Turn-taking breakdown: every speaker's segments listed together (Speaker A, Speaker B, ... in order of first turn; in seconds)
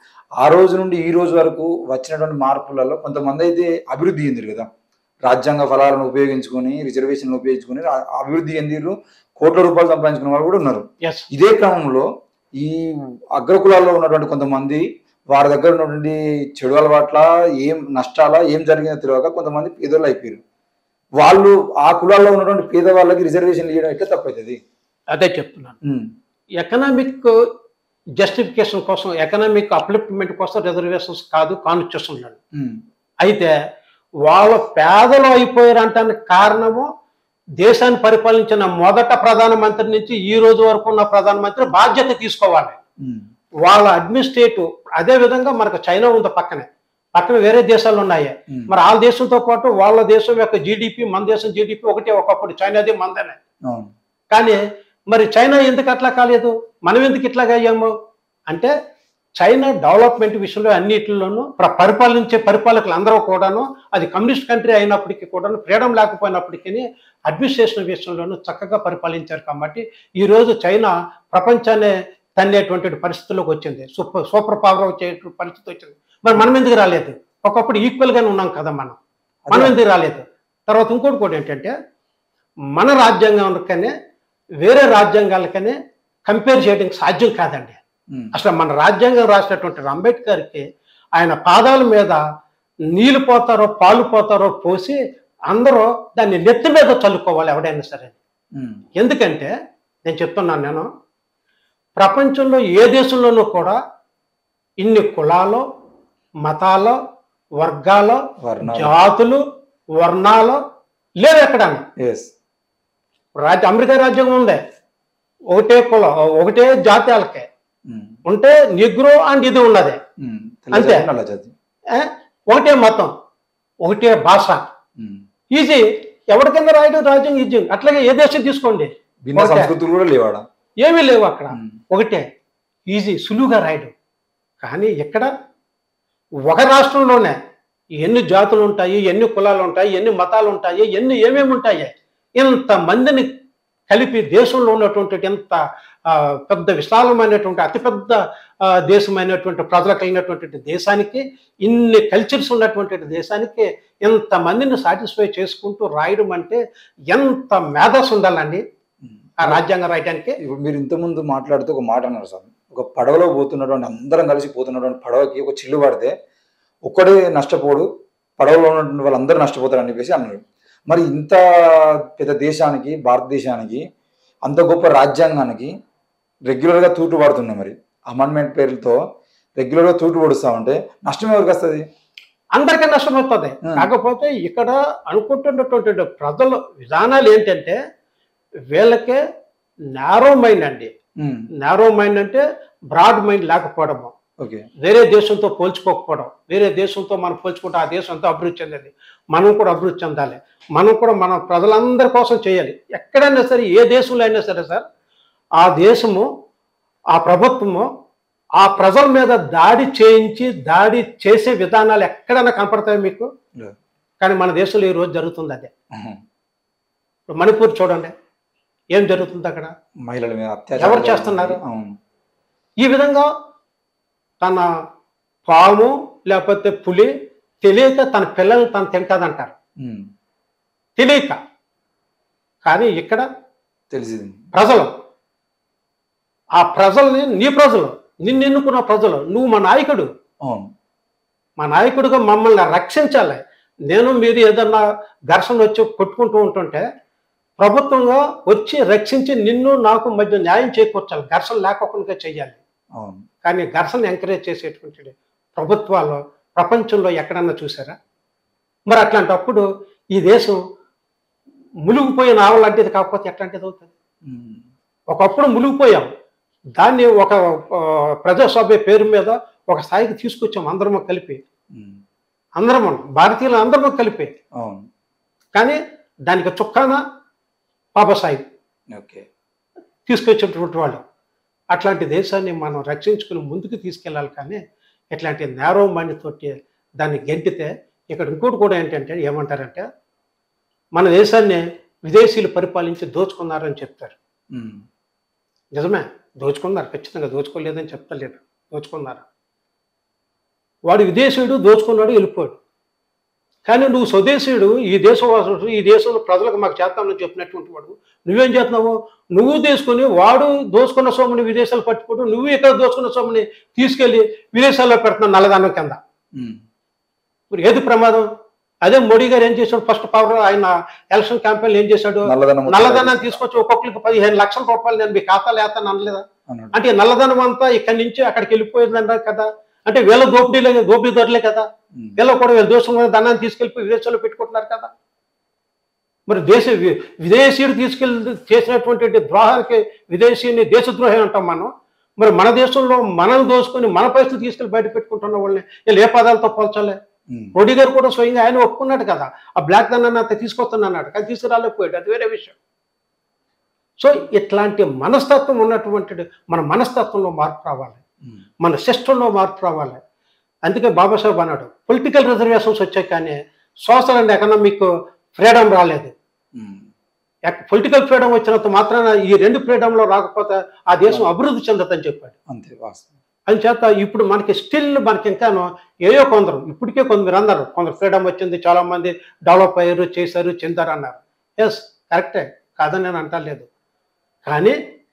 Speaker A: 0.4-4.7, 5.3-12.1, 12.6-20.4, 21.2-24.6, 25.8-26.1, 32.5-32.8, 79.5-79.8, 98.6-98.8, 108.4-108.9, 112.0-112.3, 117.9-118.2, 120.2-121.5, 129.2-130.4, 131.5-131.8, 159.0-159.6, 160.4-166.1, 166.9-167.9, 168.4-173.8, 174.5-175.7, 176.5-179.0, 179.6-181.8, 191.2-191.5, 215.9-216.2, 220.1-222.0, 229.8-230.1, 233.9-234.4, 253.0-253.2, 264.2-264.6, 271.7-272.0, 274.6-274.9, 278.9-279.2, 294.5-294.8, 322.3-323.4, 326.5-326.7, 366.6-366.9, 372.5-373.1
Speaker B: 25.1-25.8, 26.6-27.3, 28.2-32.4, 33.2-33.5, 34.3-36.9, 37.6-42.8, 43.6-53.4, 54.3-54.6, 55.1-57.9, 59.4-79.0, 79.5-81.7, 82.8-83.9, 84.6-85.8, 86.3-87.8, 88.3-90.6, 91.2-92.2, 93.0-95.0, 95.5-98.2, 99.0-99.5, 100.1-100.9, 102.0-103.8, 104.8-105.6, 106.4-107.0, 107.6-109.4, 110.0-110.6, 111.2-111.8, 113.4-114.6, 115.5-117.5, 118.3-120.0, 120.7-121.1, 121.9-123.1, 123.8-124.6, 125.5-129.7, 130.8-132.2, 132.9-133.9, 134.6-135.3, 136.5-137.4, 138.0-143.3, 143.9-148.2, 148.7-156.6, 157.1-158.6, 159.4-160.4, 182.6-187.8, 188.7-189.2, 190.0-190.9, 191.6-194.1, 194.8-204.8, 205.6-206.3, 207.1-207.9, 208.6-213.3, 214.2-215.7, 217.3-218.1, 218.9-219.7, 220.8-221.6, 222.8-223.3, 224.4-224.7, 225.5-227.1, 227.6-229.5, 231.0-231.4, 232.6-233.2, 234.5-234.9, 236.6-240.1, 241.6-246.9, 247.6-252.6, 253.4-257.9, 258.9-259.6, 260.1-260.6, 261.9-263.9, 265.1-266.1, 266.8-271.4, 272.6-274.3, 275.5-277.0, 278.0-278.4, 280.1-281.0, 281.7-284.6, 285.1-289.9, 291.0-294.2, 295.8-299.2, 300.9-302.6, 303.7-316.0, 317.5-318.3, 318.8-326.2, 326.7-331.6, 332.2-334.9, 336.3-347.0, 347.5-352.6, 354.0-358.0, 358.6-360.0, 360.7-366.1, 367.5-372.3, 373.5-383.7, 384.4-384.8